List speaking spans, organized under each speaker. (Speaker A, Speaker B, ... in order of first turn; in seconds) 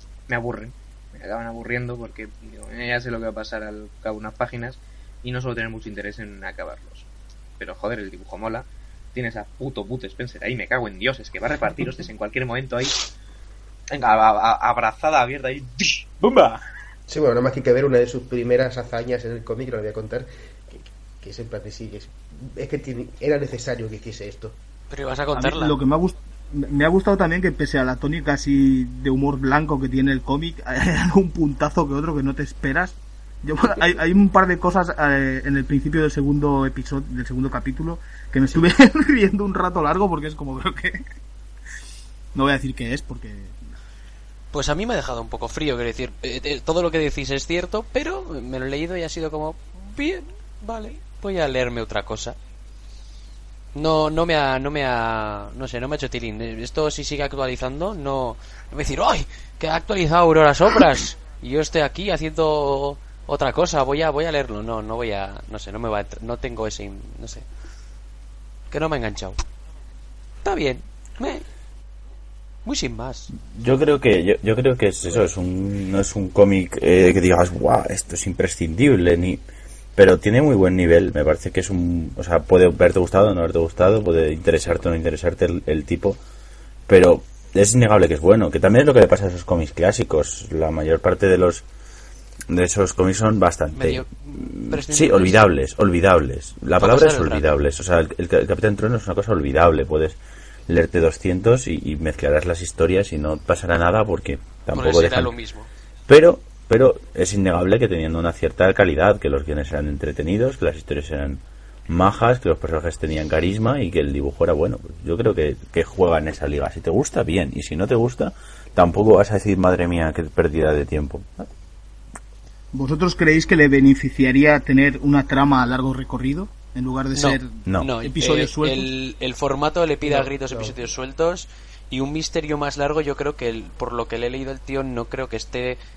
Speaker A: 0.3-7.1, 7.6-13.0, 13.9-16.6
Speaker B: 17.1-24.6, 130.0-130.8
Speaker C: 24.9-25.8, 44.5-52.4, 53.8-67.5, 68.7-69.4, 70.4-71.5, 72.7-73.3, 93.7-95.5, 96.8-97.5, 104.7-105.7, 127.2-135.8
Speaker D: 25.3-41.0, 42.4-43.6, 122.7-128.9
Speaker E: 73.5-79.4, 80.0-86.2, 86.9-91.7, 92.5-100.2, 100.7-105.3, 106.1-121.5